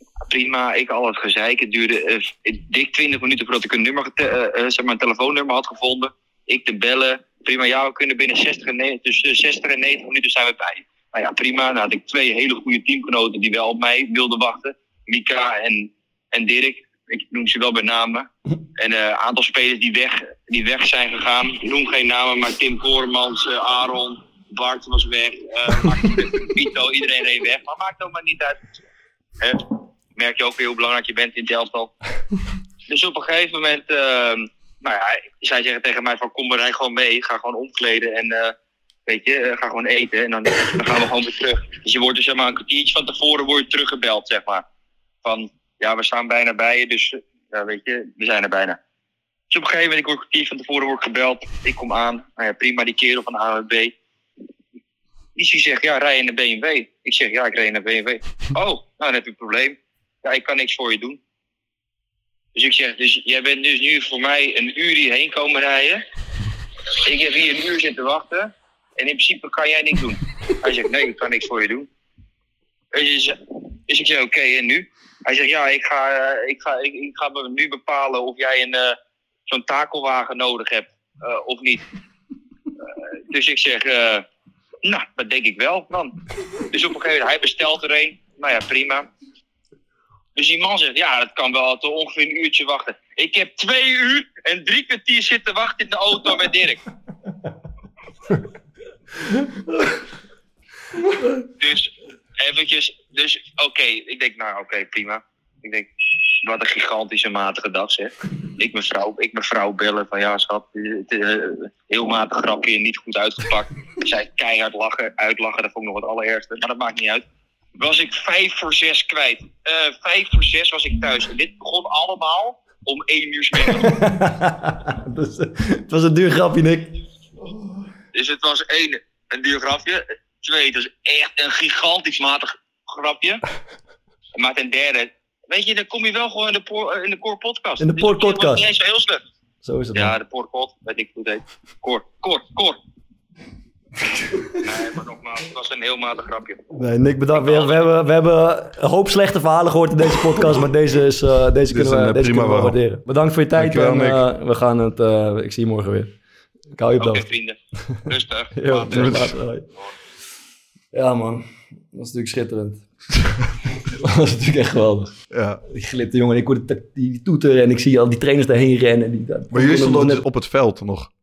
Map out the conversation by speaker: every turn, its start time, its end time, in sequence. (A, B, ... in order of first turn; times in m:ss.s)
0:00.3-0:18.3 A
0:18.8-0:28.6 A
0:29.4-0:31.9 A
0:32.9-0:38.5 A
0:39.1-0:44.6 A
0:45.2-0:48.8 A
0:49.5-0:53.9 A
0:55.4-1:01.2 A
1:02.5-1:06.0 A
1:07.0-1:11.9 A
1:12.9-1:19.0 A
1:19.5-1:21.8 A
1:23.3-1:24.2 A
1:24.8-1:26.2 A
1:26.7-1:29.1 A
1:30.4-1:36.8 A
1:41.6-1:45.9 A
1:46.4-1:57.2 A
1:57.8-2:04.0 A
2:03.7-2:06.9 B
2:08.1-2:13.4 A
2:14.3-2:19.2 A
2:17.8-2:18.7 B
2:19.6-2:20.1 B
2:19.9-2:22.8 A
2:24.6-2:26.6 A
2:26.7-2:36.1 B
2:27.3-2:27.8 A
2:31.7-2:32.8 C
2:33.6-2:34.2 C
2:36.8-2:37.3 B
2:37.0-2:39.1 A
2:38.6-2:39.7 B
2:38.9-2:39.3 C
2:40.9-2:43.3 B
2:43.8-2:45.2 B
2:45.3-2:45.6 C
2:45.7-2:50.2 B
2:49.5-2:51.1 C